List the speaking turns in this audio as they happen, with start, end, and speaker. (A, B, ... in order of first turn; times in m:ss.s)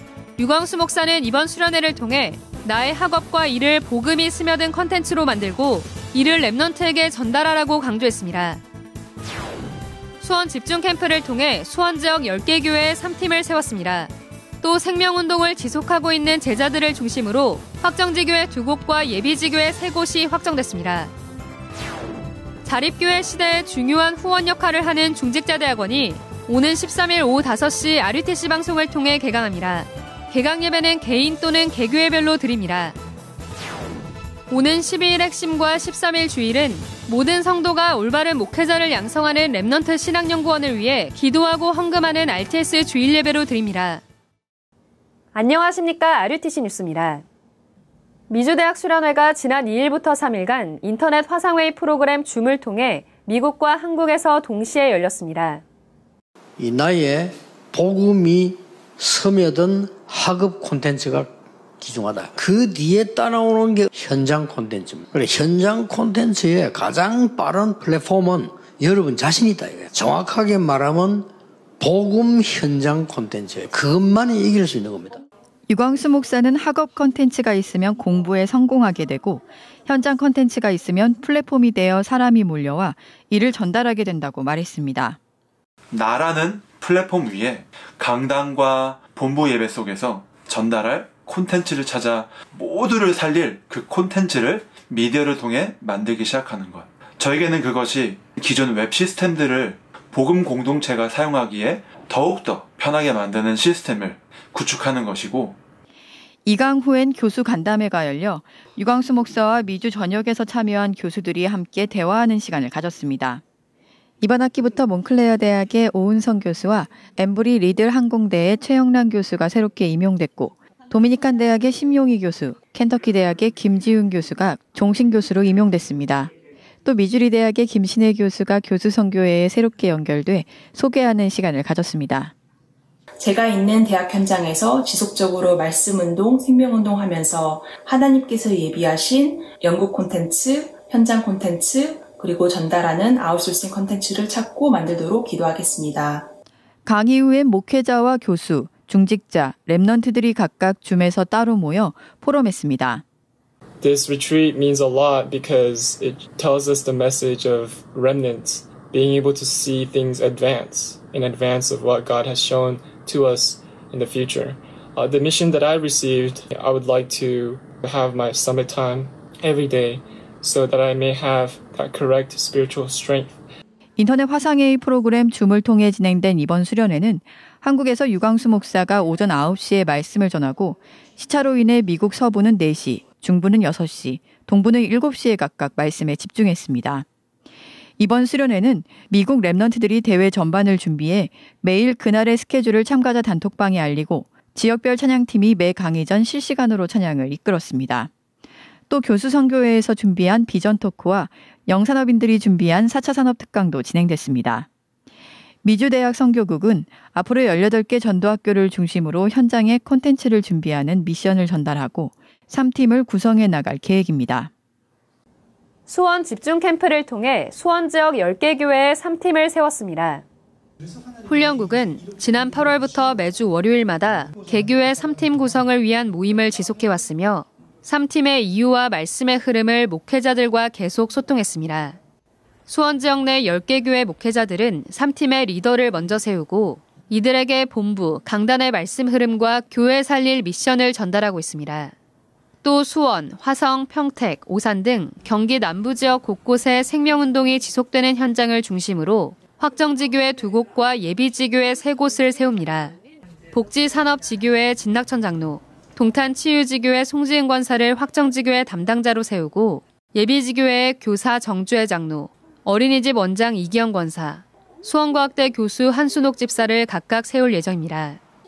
0:00.4-0:08.6 A
0:10.2-0:21.1 A
0:22.6-0:33.0 A
0:34.5-0:44.0 A
0:45.3-0:47.2 A
0:48.3-0:55.6 A
0:56.6-1:11.3 B
1:11.8-1:15.2 B
1:15.7-1:25.2 C
1:25.9-1:45.6 D
1:46.4-1:53.4 C
1:54.2-2:06.3 C
2:06.8-2:12.3 C
2:13.2-2:26.3 E
2:26.8-2:33.0 C
2:33.8-2:53.4 F
2:54.0-3:07.0 C
3:08.0-3:18.1 C
3:18.9-3:24.7 C
3:25.6-3:34.5 C
3:35.9-3:40.2 A
3:41.2-3:52.0 A
3:52.7-4:01.9 A
4:02.6-4:13.0 A
4:13.5-4:28.2 A